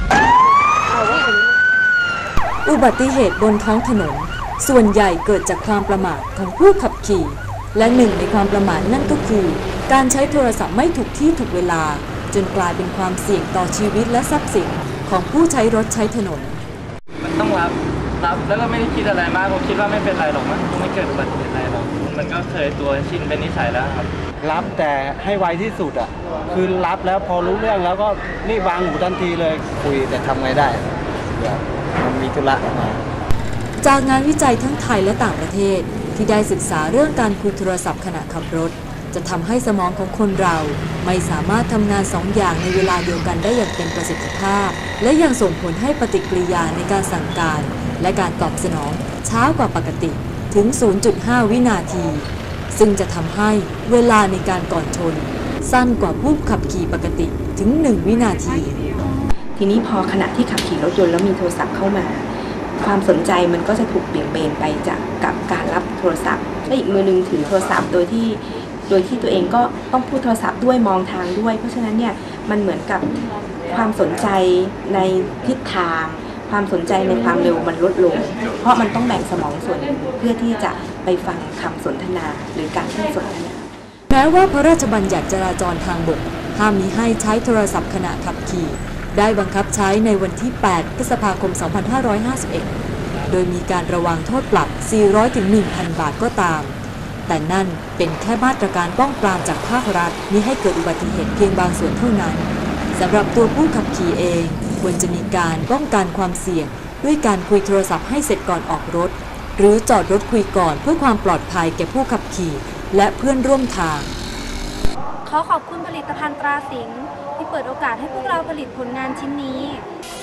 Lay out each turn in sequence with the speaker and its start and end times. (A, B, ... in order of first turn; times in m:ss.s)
0:02.6-0:16.6 A
0:17.2-0:24.1 B
0:24.4-0:33.0 C
0:33.8-0:59.0 A
0:59.6-1:23.7 D
1:24.1-1:32.7 A
1:33.3-1:36.8 A
1:37.3-1:54.1 A
1:55.2-1:59.9 E